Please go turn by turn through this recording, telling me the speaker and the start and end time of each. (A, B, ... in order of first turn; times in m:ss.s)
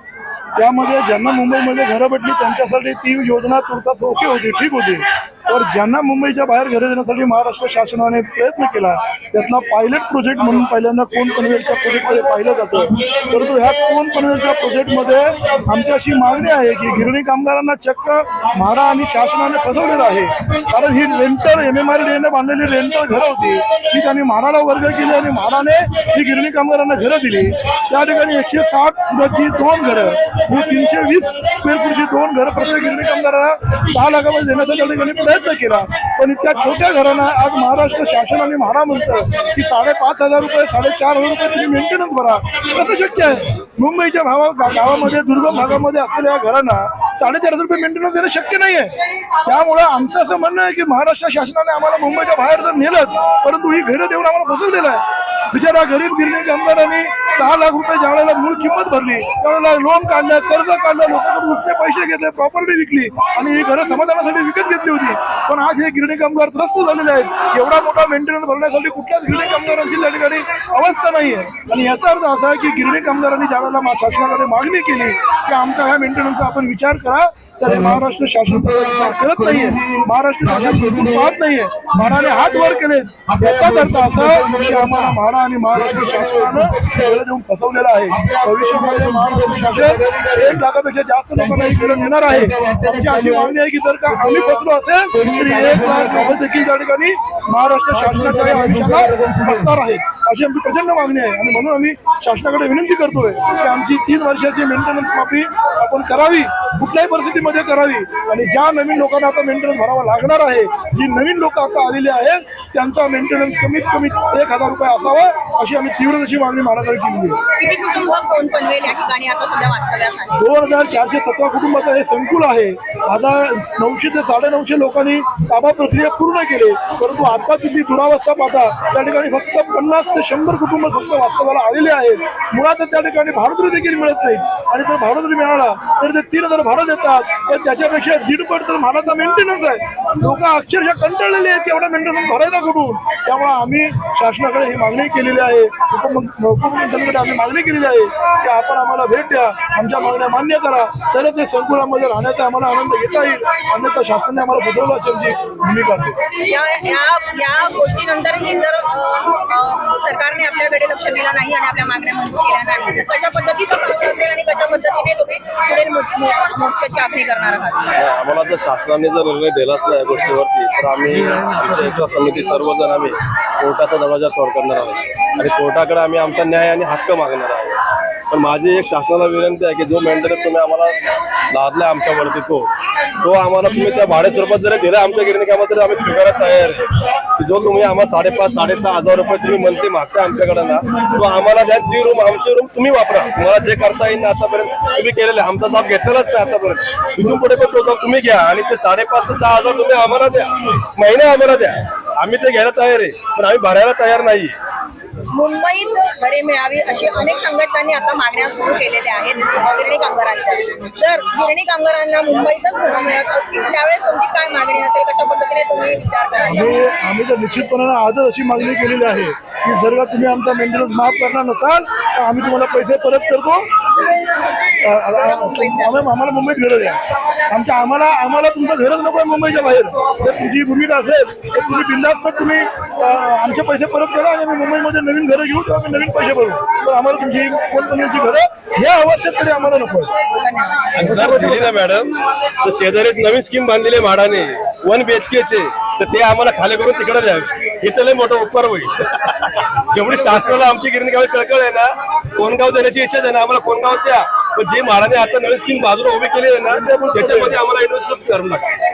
0:00.5-1:57.4 A
1:57.6-2:00.4 B
2:00.4-2:36.2 A
2:36.3-2:47.9 B
2:47.9-3:01.0 C
3:01.5-3:02.7 C
3:03.2-3:24.5 C
3:25.3-3:36.8 B
3:36.4-3:43.7 A
3:44.7-4:00.1 A
3:45.2-3:45.9 B
4:00.3-4:01.0 B
4:00.9-4:18.6 C
4:01.0-4:01.7 A
4:16.7-4:17.6 A